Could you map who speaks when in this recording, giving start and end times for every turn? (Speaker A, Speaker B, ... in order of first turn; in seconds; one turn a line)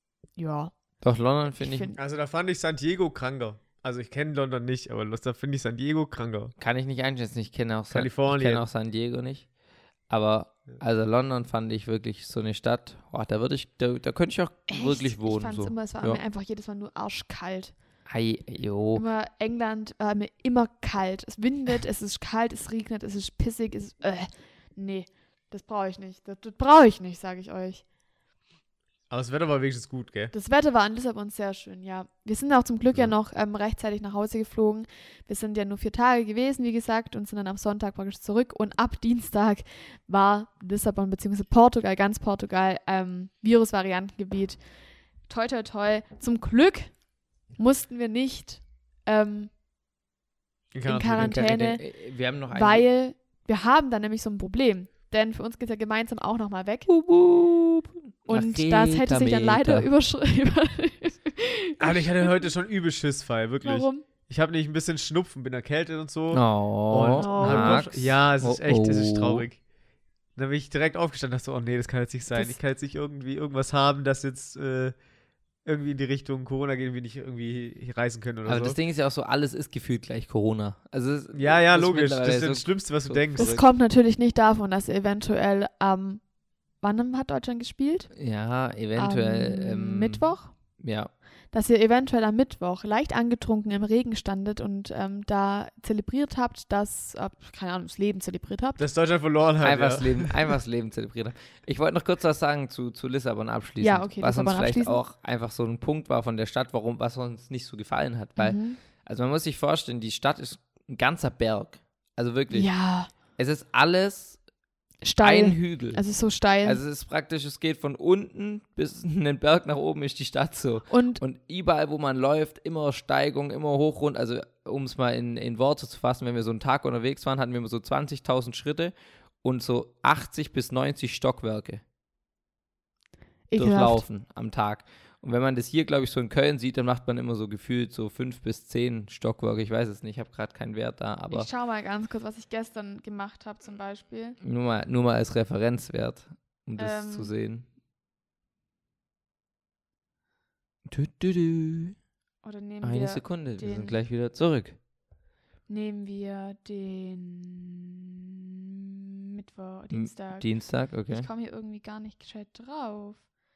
Speaker A: 0.3-0.7
Speaker B: 1.0-1.9
Speaker A: 1.6-2.0
Speaker C: 1.9-6.5
Speaker B: 6.6-9.5
Speaker C: 7.9-8.6
Speaker B: 10.1-16.2
Speaker A: 14.7-17.7
Speaker B: 18.1-19.0
Speaker A: 18.9-27.8
Speaker C: 29.1-30.3
Speaker A: 30.3-44.6
Speaker A: 45.3-46.9
Speaker A: 47.6-49.5
Speaker C: 50.7-51.5
Speaker A: 50.8-51.9
Speaker B: 51.2-52.9
Speaker A: 52.5-56.9
Speaker B: 56.9-59.9
Speaker A: 58.2-62.4
Speaker C: 61.8-69.6
Speaker A: 63.6-64.0
Speaker B: 66.3-69.5
Speaker A: 67.2-67.8
Speaker C: 70.3-74.9
Speaker C: 75.6-78.8
Speaker B: 78.5-83.6
Speaker C: 81.3-83.5
Speaker A: 83.4-86.2
Speaker A: 86.8-88.1
Speaker B: 88.1-91.1
Speaker A: 89.0-90.5
Speaker A: 91.5-98.8
Speaker C: 98.8-100.5
Speaker B: 99.6-112.7
Speaker A: 103.8-105.0
Speaker A: 108.4-108.8
Speaker A: 112.5-113.1
Speaker B: 113.3-114.4
Speaker A: 115.0-116.8
Speaker B: 115.2-116.0
Speaker B: 116.6-131.8
Speaker A: 120.9-121.2
Speaker A: 133.5-134.0
Speaker B: 133.5-141.5
Speaker A: 141.3-144.4
Speaker B: 144.4-147.7
Speaker A: 146.8-147.3
Speaker B: 150.9-151.9
Speaker A: 152.4-154.0
Speaker B: 152.8-154.8
Speaker A: 155.7-158.0
Speaker A: 159.3-163.2
Speaker B: 159.9-161.3